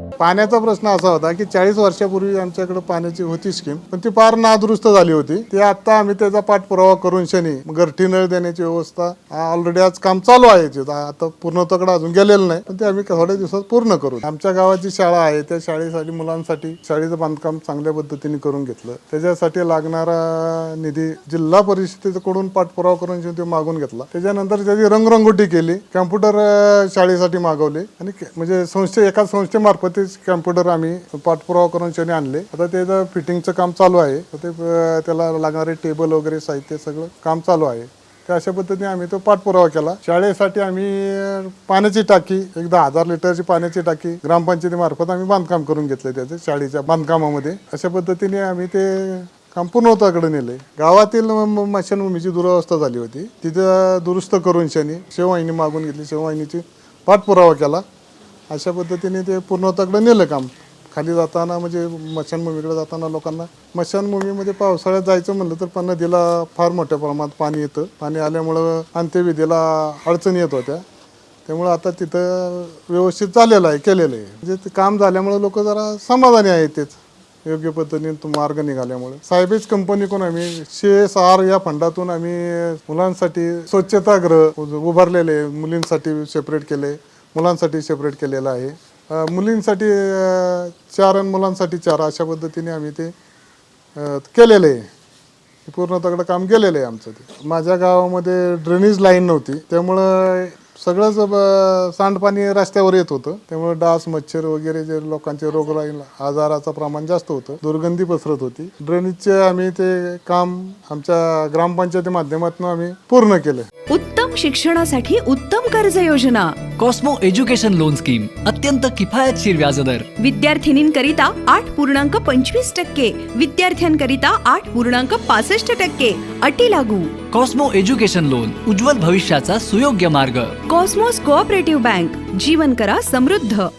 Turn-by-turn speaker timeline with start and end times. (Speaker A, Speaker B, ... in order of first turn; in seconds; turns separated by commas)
Speaker A: 0.2-57.8, Speaker A: 58.5-70.8, Speaker A: 71.5-93.1, Speaker A: 94.0-94.9, Speaker A: 95.7-113.7, Speaker B: 113.9-116.7, Speaker C: 116.8-120.1, Speaker B: 120.2-127.2, Speaker C: 127.3-130.6, Speaker B: 130.7-133.7